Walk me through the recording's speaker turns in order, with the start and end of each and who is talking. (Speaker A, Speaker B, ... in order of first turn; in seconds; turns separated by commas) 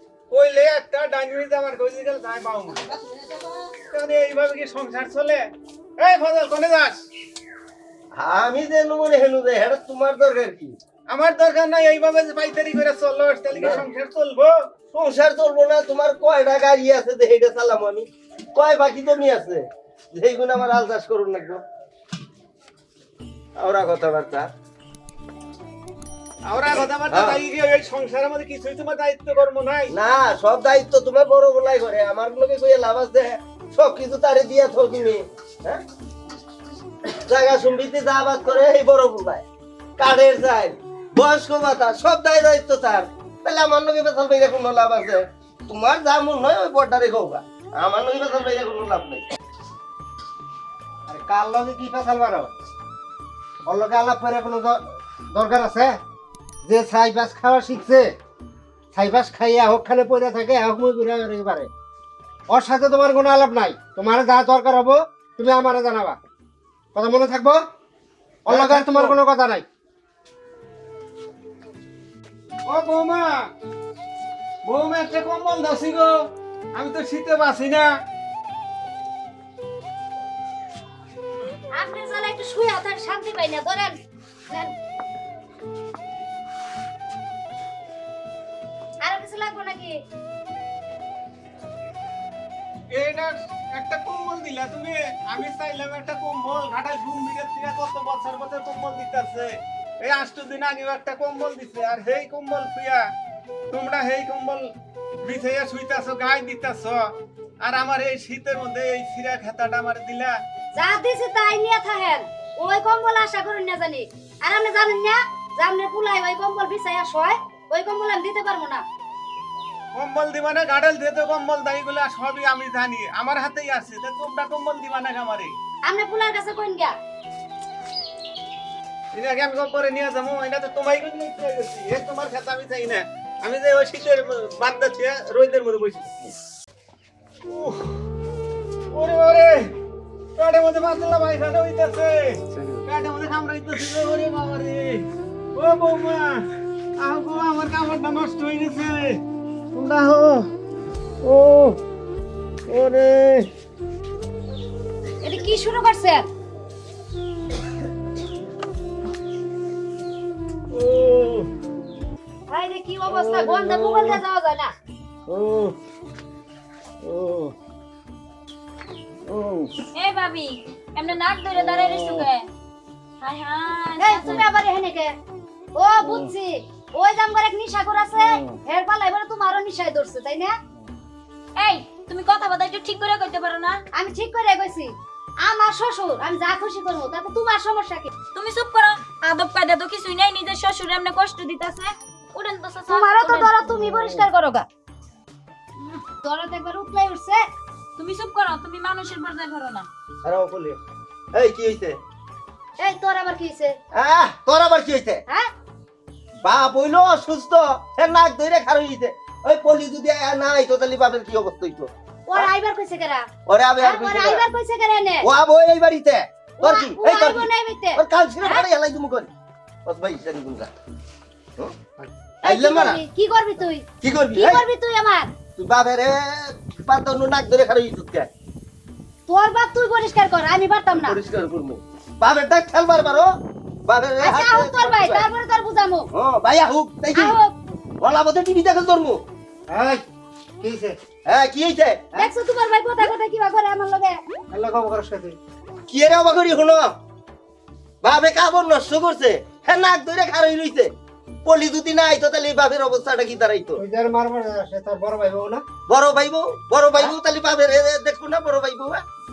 Speaker A: 0.3-2.9, Speaker A: 3.9-5.4, Speaker A: 6.0-7.0, Speaker B: 8.1-10.8, Speaker A: 11.1-14.6, Speaker B: 13.6-13.8, Speaker B: 14.9-21.6, Speaker B: 23.6-24.5, Speaker A: 26.4-29.9, Speaker B: 27.1-27.4, Speaker B: 29.9-35.8, Speaker B: 37.1-39.4, Speaker B: 40.0-49.2, Speaker C: 51.1-52.5, Speaker C: 53.6-54.8, Speaker C: 55.3-56.0, Speaker C: 56.6-58.1, Speaker C: 58.9-61.7, Speaker C: 62.5-66.2, Speaker C: 66.9-67.6, Speaker C: 68.5-69.6, Speaker A: 68.5-69.2, Speaker A: 72.7-73.5, Speaker A: 74.6-77.9, Speaker D: 81.7-83.9, Speaker D: 84.5-84.7, Speaker D: 89.0-90.0, Speaker A: 92.9-103.1, Speaker A: 103.7-104.7, Speaker A: 105.2-110.4, Speaker D: 110.7-118.8, Speaker A: 119.9-125.5, Speaker D: 125.8-126.9, Speaker A: 129.1-136.3, Speaker A: 137.5-138.0, Speaker A: 138.9-139.7, Speaker A: 140.3-149.2, Speaker A: 149.7-150.5, Speaker A: 151.2-151.7, Speaker B: 151.3-151.6, Speaker A: 152.7-153.4, Speaker D: 155.2-156.3, Speaker B: 160.8-161.4, Speaker D: 162.5-164.7, Speaker B: 163.2-163.8, Speaker B: 165.3-165.7, Speaker B: 167.1-167.5, Speaker A: 169.3-169.6, Speaker E: 169.9-172.5, Speaker E: 173.2-174.4, Speaker D: 174.0-175.1, Speaker D: 175.7-180.5, Speaker E: 181.6-183.8, Speaker D: 183.9-188.1, Speaker E: 188.3-193.5, Speaker D: 192.9-194.7, Speaker D: 196.2-197.4, Speaker E: 198.0-199.9, Speaker B: 200.2-200.8, Speaker B: 201.3-202.0, Speaker D: 202.8-203.8, Speaker B: 203.9-205.2, Speaker B: 206.4-212.5, Speaker D: 212.3-213.2, Speaker B: 213.4-214.4, Speaker D: 213.8-215.3, Speaker B: 215.2-219.3, Speaker D: 216.6-218.7, Speaker B: 219.8-220.7, Speaker B: 222.4-223.0, Speaker D: 222.4-225.3, Speaker B: 224.0-224.6, Speaker B: 225.6-228.3, Speaker D: 229.3-231.2, Speaker B: 231.0-233.3, Speaker B: 233.8-235.3, Speaker D: 234.2-236.1, Speaker B: 236.1-237.3, Speaker D: 237.1-237.5, Speaker B: 238.0-239.2, Speaker C: 239.7-240.0, Speaker C: 240.6-240.9, Speaker B: 241.2-242.3, Speaker D: 242.2-244.2, Speaker C: 244.5-245.4, Speaker B: 245.9-246.9, Speaker B: 248.0-250.9, Speaker B: 251.4-253.8, Speaker C: 253.8-255.6, Speaker B: 255.9-259.0